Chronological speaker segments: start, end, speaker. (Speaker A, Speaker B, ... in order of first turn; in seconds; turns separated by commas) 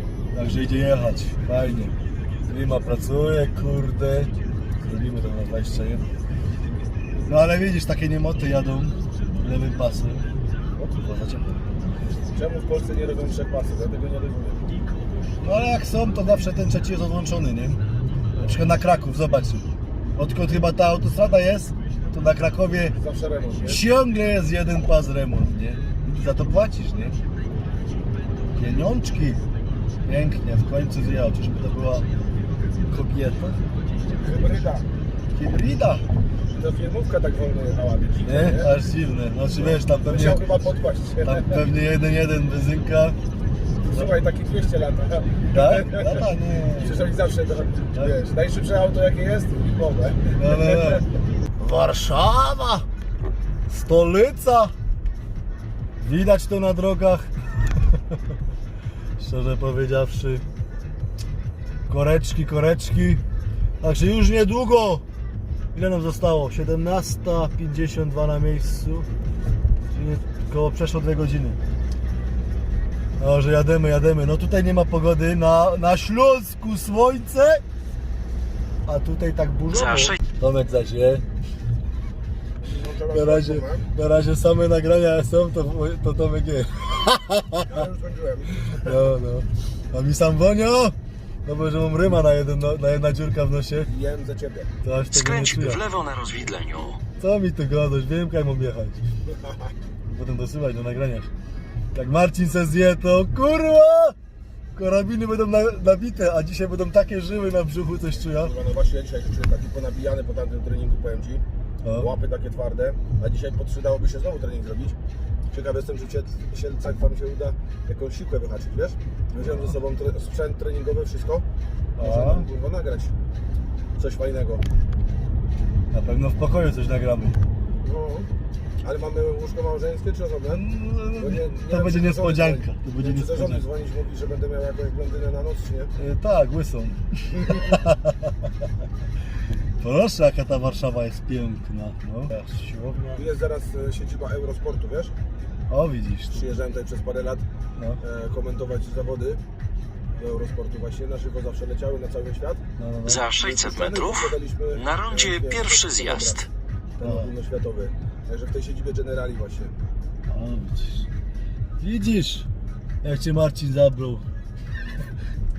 Speaker A: 0.3-6.0, Speaker A: 7.3-10.2, Speaker B: 10.8-11.0, Speaker A: 11.0-11.7, Speaker B: 12.3-14.6, Speaker A: 15.4-17.8, Speaker A: 18.4-22.9, Speaker B: 22.9-23.8, Speaker A: 23.6-27.2, Speaker A: 28.5-29.4, Speaker A: 30.0-32.1, Speaker A: 32.9-33.6, Speaker B: 34.2-34.9, Speaker A: 35.3-36.0, Speaker B: 36.5-38.7, Speaker A: 38.2-40.4, Speaker B: 39.5-41.6, Speaker A: 41.2-43.2, Speaker B: 43.8-46.2, Speaker A: 45.5-47.0, Speaker B: 46.8-51.0, Speaker A: 50.4-51.0, Speaker A: 51.6-52.9, Speaker A: 53.7-54.7, Speaker A: 56.0-57.3, Speaker A: 59.2-60.4, Speaker A: 61.9-63.2, Speaker A: 63.8-65.0, Speaker A: 65.7-69.1, Speaker A: 69.9-71.6, Speaker A: 73.2-77.6, Speaker A: 78.8-81.2, Speaker B: 82.6-83.9, Speaker A: 83.1-87.8, Speaker B: 87.6-89.0, Speaker A: 88.7-93.9, Speaker B: 93.8-94.7, Speaker A: 94.8-95.9, Speaker C: 95.4-97.0, Speaker A: 97.2-99.0, Speaker B: 99.3-99.7, Speaker A: 100.1-101.3, Speaker A: 101.9-104.2, Speaker A: 104.7-108.5, Speaker B: 108.3-115.0, Speaker A: 111.8-112.1, Speaker B: 115.5-121.4, Speaker A: 119.4-119.7, Speaker A: 122.0-122.5, Speaker B: 122.0-123.1, Speaker B: 124.0-124.6, Speaker A: 125.9-127.4, Speaker B: 127.8-128.3, Speaker B: 128.8-130.7, Speaker A: 130.5-133.6, Speaker B: 131.2-135.9, Speaker A: 135.9-138.5, Speaker B: 137.3-137.7, Speaker A: 139.8-143.2, Speaker B: 143.1-145.1, Speaker A: 145.7-146.5, Speaker B: 146.3-147.4, Speaker B: 148.0-149.4, Speaker B: 150.2-152.6, Speaker A: 152.8-153.3, Speaker C: 153.2-154.0, Speaker B: 153.3-159.8, Speaker C: 154.8-156.3, Speaker A: 157.0-157.3, Speaker A: 160.2-161.1, Speaker A: 161.8-162.5, Speaker A: 163.0-164.2